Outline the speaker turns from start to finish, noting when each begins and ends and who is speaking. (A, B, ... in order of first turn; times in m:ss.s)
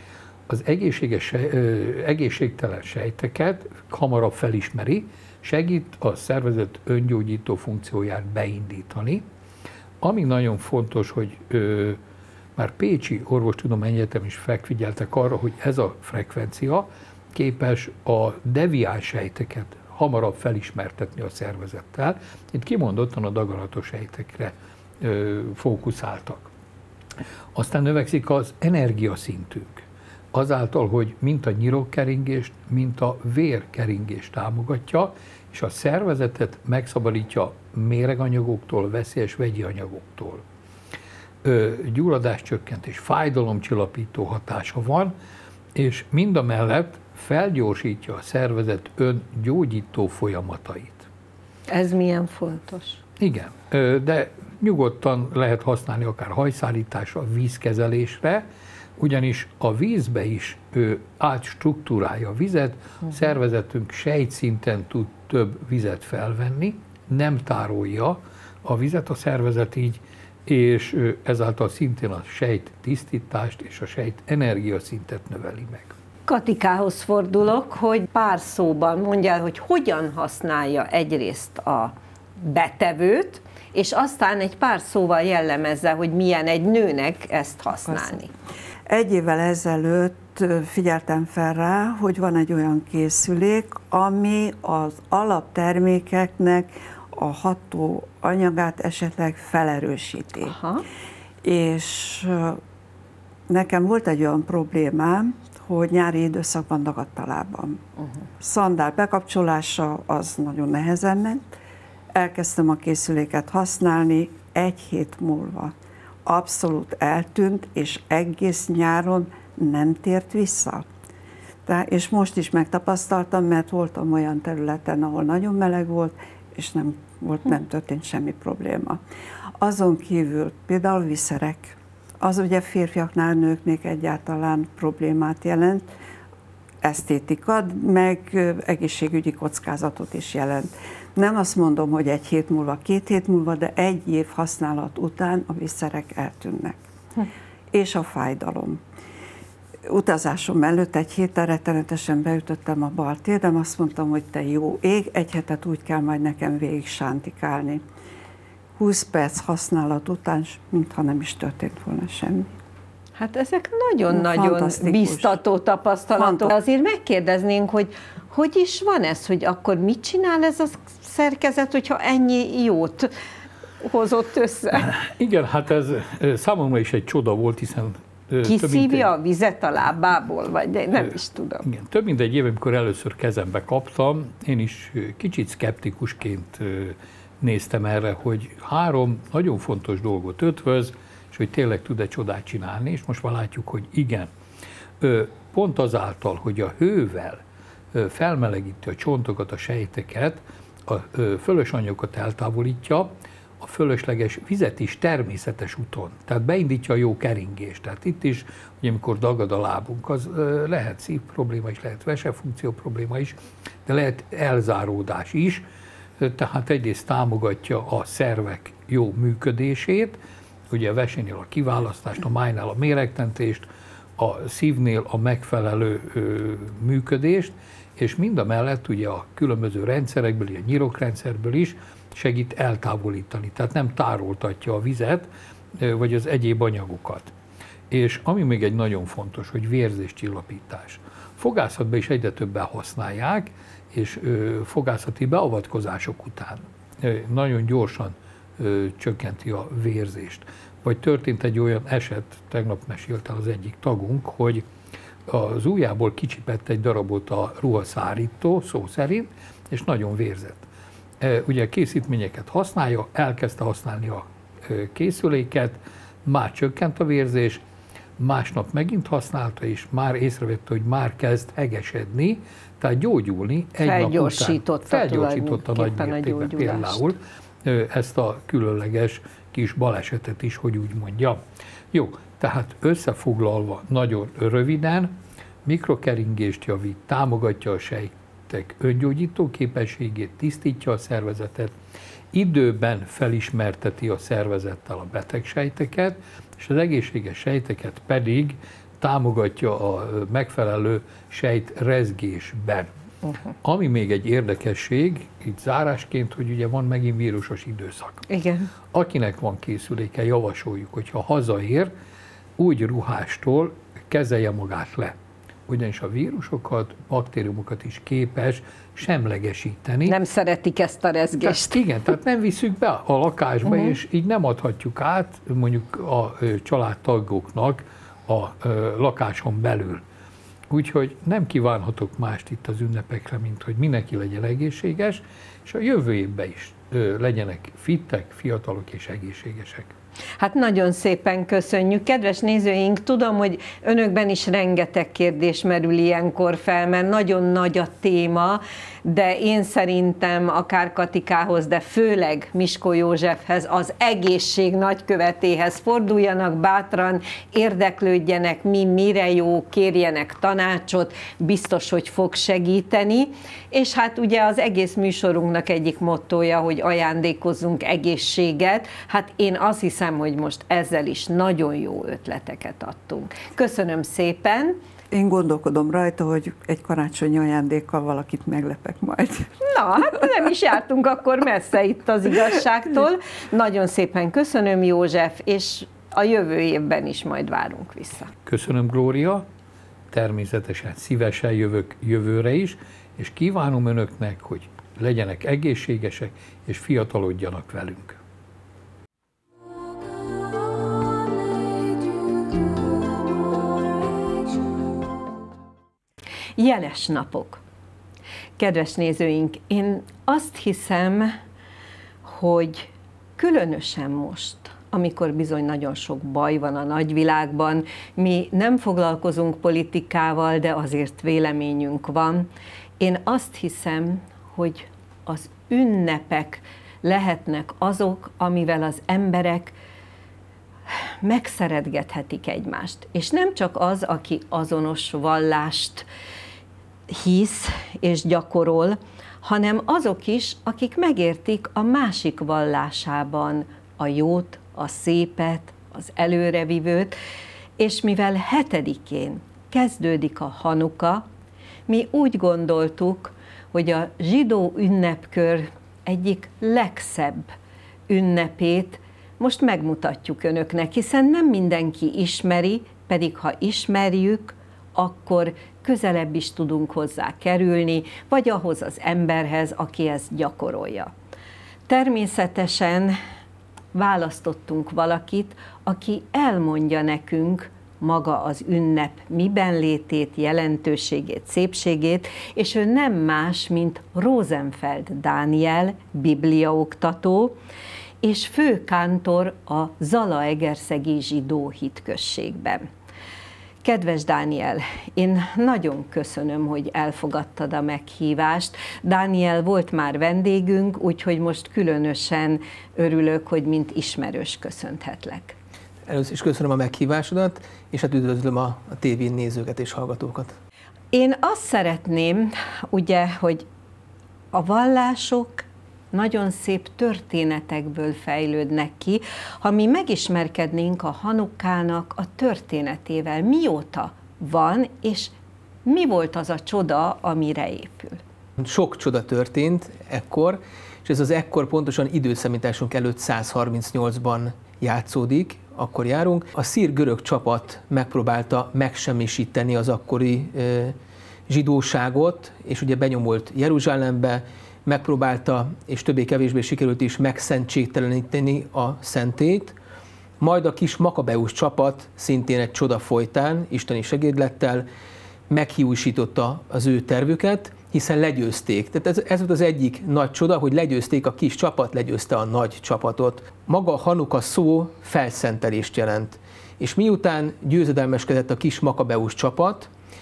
0:00.5-0:09.2 A
0:10.0-0:12.0 A
0:12.6-0:26.5 A
0:27.5-0:40.4 A
0:41.4-0:45.1 A
0:45.8-0:51.1 A
0:51.7-0:53.0 B
0:53.2-0:58.5 A
0:59.0-1:15.9 A
1:16.3-1:28.3 B
1:27.9-1:28.2 C
1:28.9-1:40.6 C
1:40.5-1:40.8 B
1:41.4-1:42.6 C
1:43.5-1:47.8 C
1:48.4-1:51.6 C
1:52.2-2:00.9 C
2:01.7-2:09.0 C
2:09.6-2:15.9 C
2:16.8-2:26.8 C
2:27.7-2:28.8 C
2:29.9-2:37.8 C
2:38.8-2:42.6 C
2:43.2-2:53.1 B
2:44.1-2:45.4 C
2:46.2-2:46.6 C
2:53.8-2:54.9 B
2:54.7-2:59.1 A
2:58.4-3:01.7 B
3:01.6-3:14.3 A
3:15.0-3:17.4 A
3:17.9-3:35.6 A
3:36.2-3:40.2 A
3:40.7-3:57.3 A
3:57.9-4:14.6 A
4:15.3-4:20.7 A
4:21.2-4:27.6 A
4:28.2-4:41.4 A
4:33.8-4:37.0 B
4:41.9-4:51.8 A
4:52.3-5:02.9 A
5:03.6-5:08.3 A
5:08.3-5:08.7 B
5:08.9-5:11.9 A
5:12.6-5:15.1 A
5:15.7-5:20.2 A
5:20.1-5:21.8 B
5:21.4-5:30.0 A
5:23.7-5:24.0 B
5:30.7-5:39.9 A
5:40.4-6:14.8 B
6:15.1-6:19.5 C
6:19.6-6:28.3 B
6:28.5-6:29.4 A
6:30.1-6:38.2 A
6:46.6-6:47.6 B
6:48.6-6:51.3 B
6:52.2-7:02.5 B
7:03.0-7:09.8 B
7:11.2-7:16.1 B
7:17.1-7:27.2 B
7:27.8-7:31.2 B
7:31.9-7:37.5 B
7:38.1-7:51.1 B
7:51.9-7:53.2 B
7:53.9-8:07.6 B
8:08.2-8:12.9 B
8:13.8-8:25.6 B
8:26.1-8:30.6 D
8:31.1-8:33.7 B
8:34.5-8:45.4 B
8:45.9-8:48.2 B
8:48.6-9:01.0 D
9:01.5-9:09.8 D
9:10.4-9:14.9 D
9:15.5-9:29.9 D